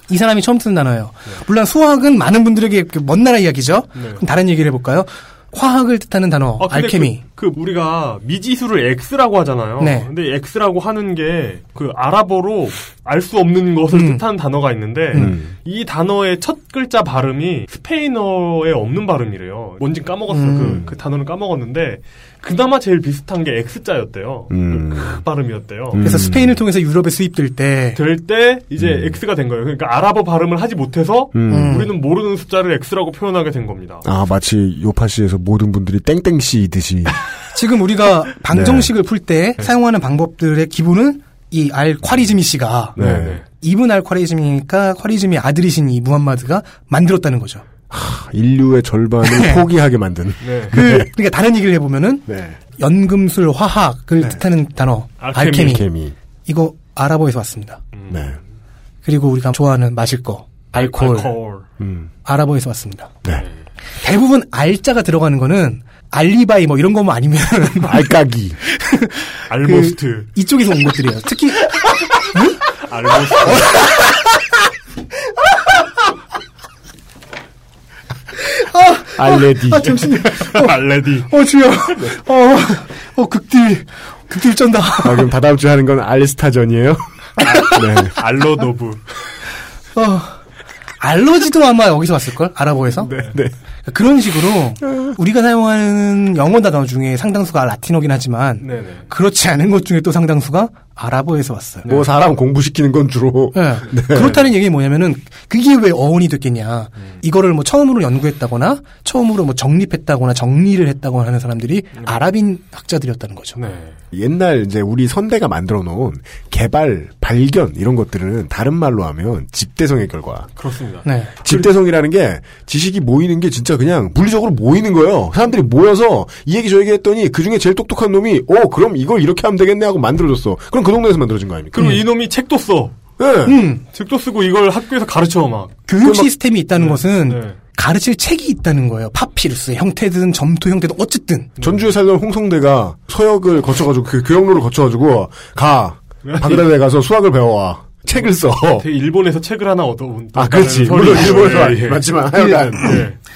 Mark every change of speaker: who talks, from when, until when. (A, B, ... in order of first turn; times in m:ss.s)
0:00.1-0:07.2 A
0:04.0-0:04.2 B
0:06.6-0:26.0 B
0:09.8-0:10.1 A
0:13.9-0:14.2 A
0:15.1-0:15.5 C
0:20.3-0:20.8 A
0:24.5-0:25.2 C
0:25.9-0:26.6 C
0:26.0-0:28.0 A
0:28.0-0:34.1 B
0:28.8-0:29.2 C
0:31.4-0:31.8 C
0:31.5-0:31.9 A
0:34.0-0:37.2 C
0:37.5-0:43.0 A
0:38.5-0:38.9 C
0:43.0-0:43.4 C
0:43.0-0:43.4 B
0:43.5-0:47.6 A
0:47.9-0:51.1 C
0:49.2-0:49.7 A
0:50.4-0:50.8 B
0:50.7-0:52.2 A
0:52.3-0:52.6 C
0:52.8-0:55.9 A
0:55.2-0:55.9 B
0:55.5-0:56.2 C
0:56.5-0:57.8 A
0:57.9-0:58.4 B
0:58.1-0:58.4 C
0:59.0-1:01.3 A
1:00.7-1:01.6 B
1:01.8-1:02.1 C
1:02.2-1:03.1 A
1:04.0-1:08.1 A
1:07.8-1:08.6 C
1:08.7-1:12.6 A
1:09.5-1:10.3 B
1:12.8-1:13.8 B
1:18.5-1:25.3 A
1:19.2-1:20.0 C
1:20.4-1:21.3 B
1:25.0-1:28.2 C
1:27.4-1:29.0 B
1:30.0-1:30.4 A
1:31.0-1:33.1 A
1:33.0-1:33.5 C
1:33.8-1:41.9 A
1:38.6-1:39.1 B
1:41.9-1:44.4 C
1:43.5-1:53.6 A
1:53.6-1:54.0 B
1:54.1-2:00.5 C
2:00.6-2:01.1 B
2:01.0-2:01.6 A
2:01.4-2:12.0 C
2:11.7-2:13.0 B
2:13.2-2:13.6 C
2:13.5-2:13.8 A
2:13.9-2:15.9 B
2:15.9-2:21.5 A
2:16.0-2:16.3 C
2:16.8-2:17.6 B
2:21.6-2:21.9 B
2:21.6-2:28.9 C
2:26.2-2:26.7 B
2:28.7-2:32.1 B
2:30.4-2:33.0 C
2:32.4-2:32.9 A
2:32.7-2:33.2 B